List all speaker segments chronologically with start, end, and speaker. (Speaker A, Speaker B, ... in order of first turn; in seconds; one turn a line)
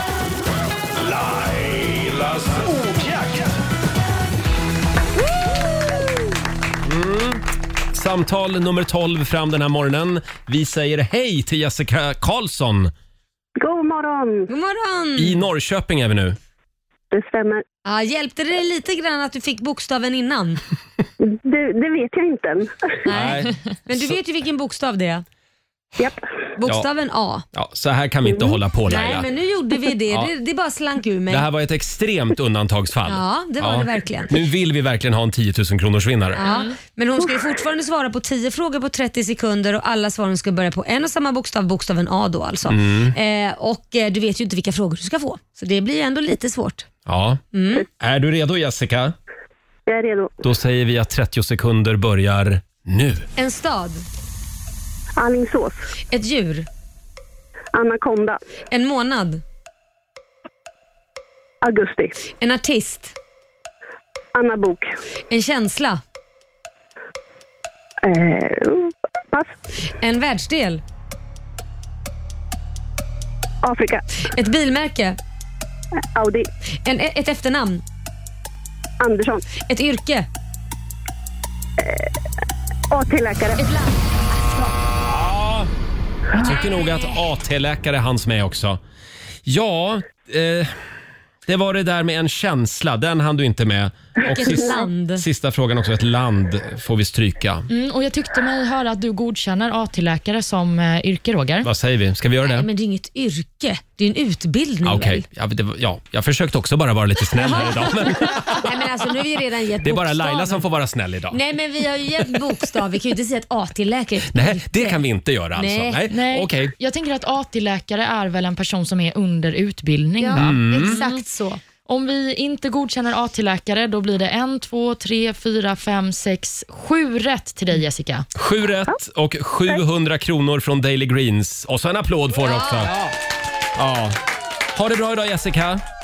Speaker A: 1.0-3.6
Speaker B: 6.8-12.9
Speaker C: 13.6-14.5
Speaker D: 14.5-15.4
Speaker B: 15.2-16.4
Speaker C: 17.1-17.6
Speaker D: 17.8-20.6
Speaker C: 21.4-22.7
Speaker B: 23.1-24.2
Speaker D: 23.1-25.2
Speaker D: 26.6-27.4
Speaker B: 27.5-29.3
Speaker D: 28.9-31.5
Speaker B: 31.3-36.4
Speaker D: 33.1-34.4
Speaker D: 36.3-46.9
Speaker B: 42.7-43.1
Speaker B: 47.0-49.1
Speaker D: 47.5-47.9
Speaker C: 49.9-50.3
Speaker B: 50.4-53.3
Speaker D: 53.4-54.0
Speaker C: 55.2-55.8
Speaker D: 56.1-56.7
Speaker C: 57.7-58.4
Speaker D: 58.7-59.4
Speaker C: 61.6-62.1
Speaker D: 62.4-63.1
Speaker C: 64.3-64.9
Speaker D: 65.3-66.0
Speaker C: 68.0-69.5
Speaker D: 70.0-70.8
Speaker C: 73.6-74.0
Speaker D: 74.2-75.2
Speaker C: 76.2-76.5
Speaker D: 76.8-77.8
Speaker C: 79.0-79.4
Speaker D: 79.7-80.3
Speaker C: 82.9-83.6
Speaker B: 85.0-85.7
Speaker B: 86.3-88.8
Speaker D: 86.4-87.2
Speaker B: 89.5-90.7
Speaker B: 91.5-97.7
Speaker D: 94.2-95.2
Speaker E: 97.7-101.7
Speaker B: 101.6-102.7
Speaker D: 102.4-105.2
Speaker B: 104.8-108.8
Speaker D: 107.3-110.6
Speaker B: 109.8-111.4
Speaker D: 111.3-115.0
Speaker B: 114.3-116.7
Speaker D: 115.5-116.0
Speaker E: 116.1-121.2
Speaker D: 120.2-121.6
Speaker B: 120.3-121.0
Speaker E: 121.8-128.3
Speaker B: 128.3-132.9
Speaker D: 132.4-132.9
Speaker B: 133.7-134.2
Speaker B: 134.7-135.8